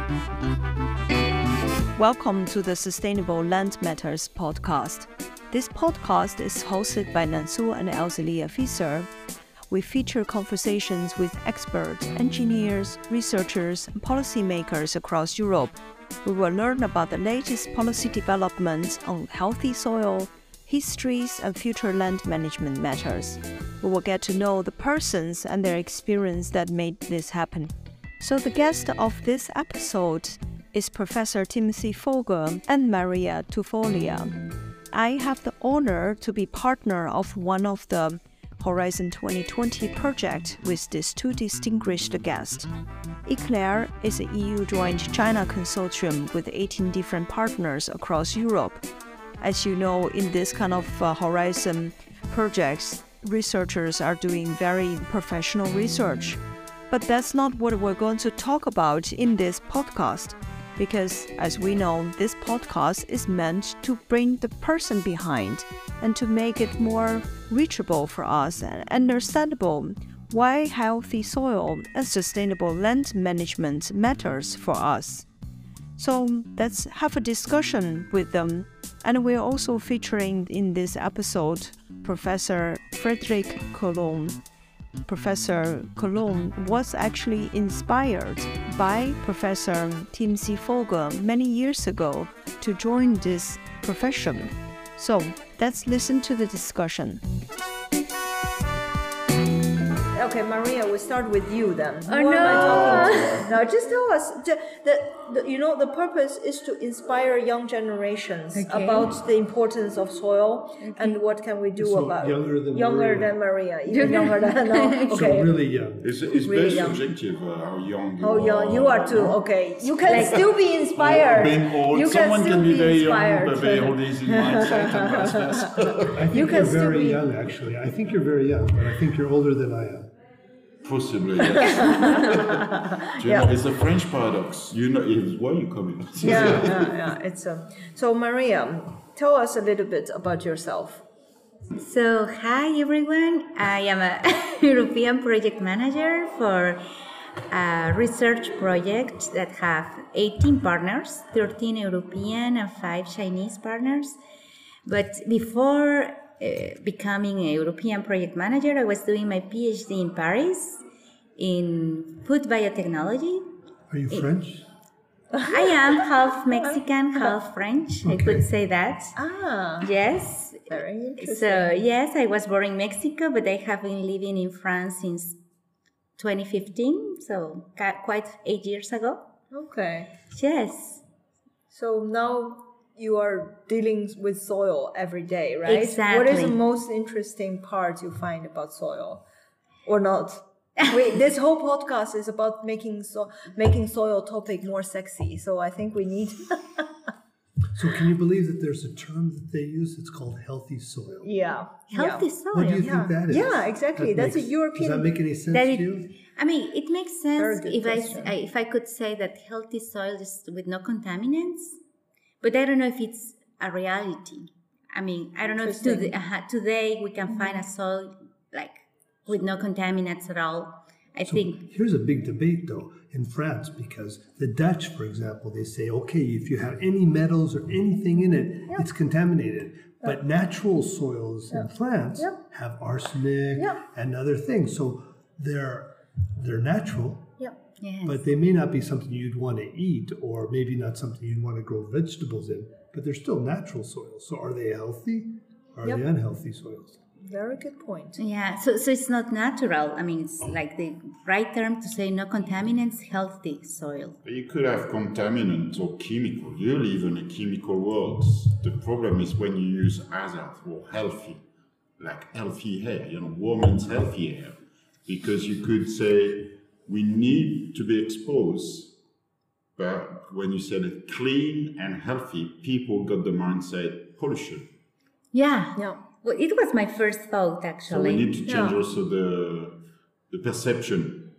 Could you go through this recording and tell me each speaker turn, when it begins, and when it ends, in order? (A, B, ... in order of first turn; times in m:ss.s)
0:02.0-0:09.1 A
0:09.7-0:42.7 A
0:43.2-0:48.8 A
0:49.4-1:15.2 A
1:16.0-1:24.4 A
1:25.1-1:37.2 A
1:40.1-1:55.5 A
1:42.0-1:43.6 B
1:42.5-1:43.4 C
1:48.5-1:49.1 B
1:50.8-1:51.2 B
1:51.8-1:53.4 D
1:53.9-1:55.3 B
1:54.0-1:54.4 D
1:55.1-1:56.1 D
1:56.0-1:59.4 C
1:56.4-1:57.0 A
1:58.2-2:05.3 A
2:00.0-2:06.4 C
2:00.1-2:00.4 B
2:06.1-2:10.1 D
2:06.3-2:07.2 A
2:10.8-2:17.0 C
2:11.6-2:13.5 A
2:16.2-2:21.0 A
2:21.8-2:26.8 B
2:27.5-2:34.2 B
2:34.8-2:40.8 B
2:41.4-2:43.4 B
2:43.9-2:44.6 D
2:45.3-2:46.0 A
2:45.5-2:49.2 B
2:46.6-2:47.4 A
2:48.0-2:48.5 D
2:49.1-2:49.9 A
2:49.8-2:55.4 B
2:50.7-2:51.7 A
2:56.2-2:59.2 B
2:59.5-3:00.1 A
3:00.3-3:01.0 B
3:01.7-3:09.2 A
3:05.6-3:06.6 B
3:09.8-3:16.9 A
3:17.7-3:21.3 D
3:21.2-3:25.1 A
3:21.9-3:22.8 B
3:22.5-3:26.2 D
3:25.5-3:31.8 B
3:27.3-3:28.3 A
3:32.4-3:41.6 B
3:35.5-3:36.1 A
3:37.3-3:37.6 A
3:41.2-3:57.3 D
3:51.5-3:52.4 A
3:53.6-3:53.8 A
3:57.8-3:58.2 B
3:58.0-4:07.0 D
4:07.2-4:08.2 A
4:08.2-4:14.2 B
4:14.2-4:21.4 C
4:22.0-4:28.9 C
4:29.8-4:34.6 C
4:35.3-4:38.3 B
4:37.9-4:39.8 C
4:38.4-4:38.8 A
4:40.3-4:41.3 C